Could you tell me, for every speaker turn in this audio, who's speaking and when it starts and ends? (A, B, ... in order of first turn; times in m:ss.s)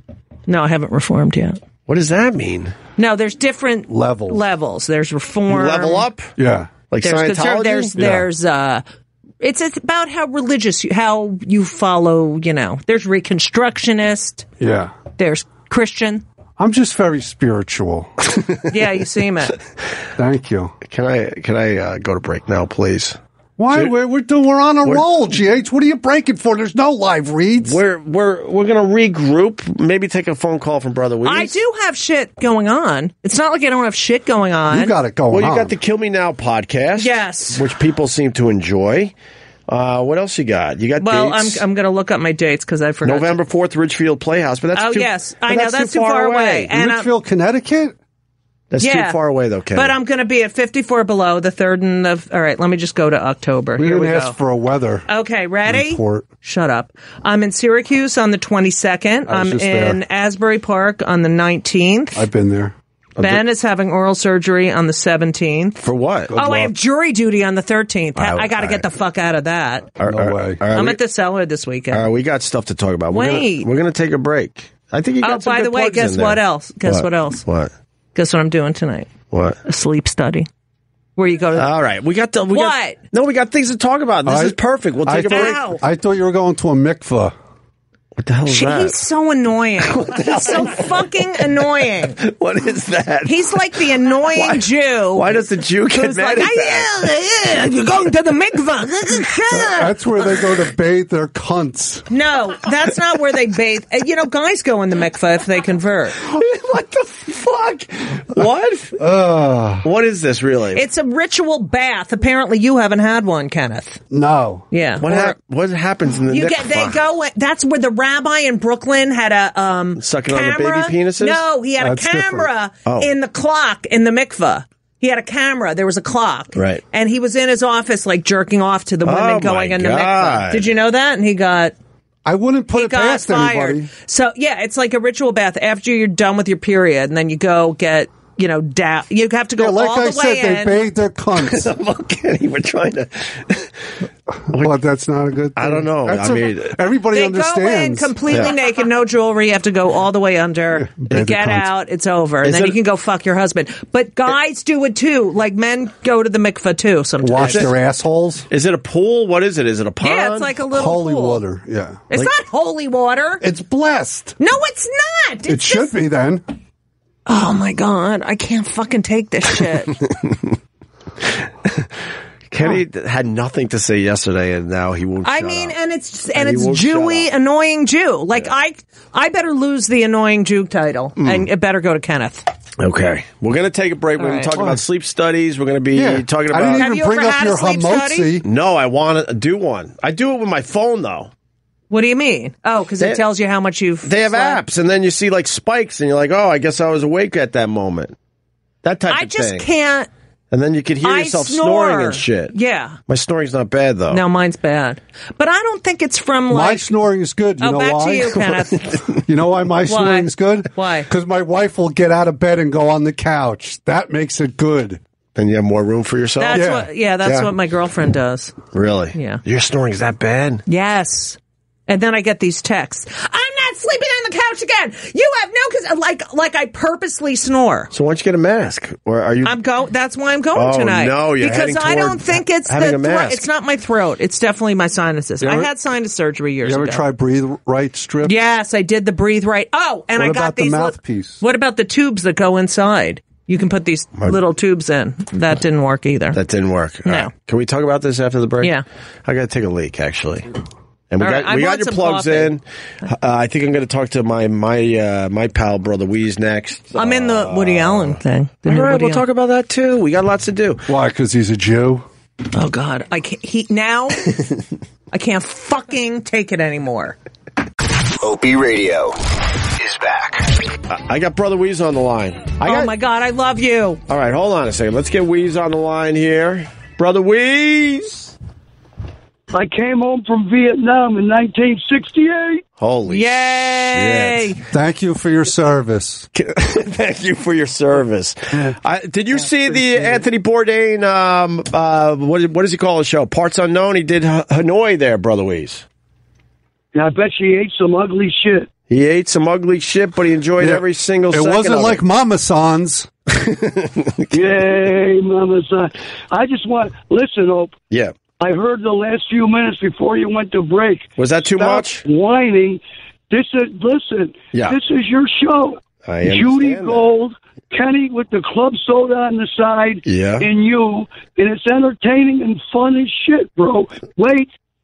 0:00.5-0:01.6 A
0:01.9-0:02.8 B
0:03.0-0:06.1 A
0:03.9-0:04.4 C
0:05.5-0:06.3 B
0:06.4-0:06.7 C
0:06.9-0:08.2 B
0:07.0-0:08.8 A
0:09.4-0:14.5 A
0:14.6-0:15.0 C
0:15.2-0:16.2 A
0:16.6-0:18.1 C
0:18.7-0:19.6 A
0:20.2-0:20.8 C
0:20.9-0:23.2 B
0:23.6-0:27.8 C
0:27.6-0:31.6 B
0:31.2-0:35.0 A
0:34.7-0:35.8 C
0:35.3-0:39.1 B
0:37.0-0:37.7 A
0:39.7-0:41.6 B
0:41.0-0:43.4 A
0:43.0-0:46.7 B
0:44.8-0:47.1 A
0:46.7-0:48.0 C
0:48.7-0:49.9 B
0:48.8-0:49.2 A
0:49.7-0:54.4 A
0:53.8-0:55.1 C
0:55.1-1:02.2 A
0:55.7-0:56.3 C
0:59.3-1:00.0 C
1:02.1-1:02.7 C
1:03.2-1:03.4 B
1:03.2-1:05.8 A
1:05.8-1:06.3 B
1:06.3-1:06.7 C
1:06.4-1:09.9 A
1:08.2-1:08.8 B
1:10.0-1:11.0 B
1:10.1-1:10.6 C
1:10.7-1:12.1 A
1:11.9-1:17.7 B
1:13.1-1:13.7 A
1:15.2-1:17.4 A
1:18.2-1:19.1 A
1:19.3-1:19.6 B
1:19.6-1:20.5 A
1:21.2-1:21.7 A
1:21.5-1:25.6 B
1:22.5-1:23.0 A
1:24.3-1:27.4 C
1:25.2-1:25.8 A
1:28.2-1:29.0 B
1:28.5-1:32.2 A
1:29.8-1:31.1 B
1:32.2-1:33.5 B
1:33.2-1:35.3 A
1:34.3-1:37.0 B
1:35.9-1:39.9 A
1:39.5-1:42.1 C
1:42.1-1:46.3 A
1:46.2-1:49.0 B
1:49.0-1:49.9 C
1:49.8-1:50.8 B
1:50.7-1:54.0 A
1:54.1-1:54.7 C
1:54.7-1:55.4 A
1:55.0-1:57.0 B
1:56.3-2:11.8 A
2:00.0-2:01.4 B
2:01.8-2:02.5 C
2:06.6-2:06.8 B
2:09.0-2:10.7 B
2:12.2-2:13.9 C
2:12.7-2:20.9 A
2:19.6-2:21.7 C
2:21.4-2:23.7 B
2:24.3-2:28.2 C
2:24.5-2:24.8 B
2:25.6-2:26.8 B
2:27.1-2:37.7 A
2:30.8-2:31.7 C
2:32.4-2:32.8 B
2:37.2-2:38.5 C
2:37.4-2:37.7 B
2:38.5-2:40.6 B
2:40.0-2:41.4 A
2:40.7-2:42.0 C
2:42.1-2:43.4 A
2:43.4-2:44.4 C
2:44.4-2:46.0 A
2:45.5-2:46.4 C
2:47.3-2:50.0 A
2:51.6-2:51.9 B
2:52.5-2:55.8 B
2:55.2-3:02.5 A
2:56.3-2:57.3 B
3:01.2-3:01.5 B
3:02.8-3:06.9 B
3:04.2-3:04.5 A
3:04.5-3:04.8 C
3:06.0-3:08.4 C
3:06.7-3:08.4 A
3:08.4-3:11.3 B
3:11.9-3:14.6 A
3:14.0-3:18.2 B
3:18.8-3:19.7 B
3:19.1-3:20.1 A
3:20.5-3:22.6 B
3:21.0-3:23.0 A
3:23.1-3:24.2 B
3:24.1-3:26.9 A
3:26.5-3:35.0 C
3:27.6-3:29.1 A
3:29.9-3:31.1 A
3:35.4-3:37.5 B
3:36.4-3:39.4 A
3:36.5-3:36.9 C
3:38.7-3:40.6 B
3:40.7-3:41.4 A
3:41.9-3:47.9 A
3:47.9-3:49.6 B
3:49.4-3:57.0 A
3:50.6-3:53.4 B
3:55.4-3:55.7 C
3:56.6-3:58.4 C
3:58.2-4:06.4 A
4:00.2-4:01.4 C
4:06.3-4:08.7 B
4:07.0-4:07.3 A
4:09.2-4:10.5 B
4:11.1-4:20.8 B
4:11.2-4:12.6 A
4:17.0-4:19.2 A
4:20.9-4:22.1 C
4:22.5-4:24.4 A
4:25.1-4:27.2 A
4:30.9-4:32.9 B
4:32.6-4:34.0 A
4:34.1-4:38.3 B
4:39.5-4:42.6 D
4:42.8-4:44.5 B
4:43.1-4:44.6 A
4:44.7-4:46.3 C
4:46.3-4:55.8 B
4:48.5-4:48.8 C
4:49.9-4:50.2 D
4:56.9-4:58.7 D
4:58.9-5:02.0 B
5:00.6-5:03.1 C
5:03.4-5:04.6 B
5:04.3-5:07.8 D
5:08.4-5:24.5 D
5:11.2-5:12.0 B
5:16.0-5:17.1 B
5:20.0-5:20.5 B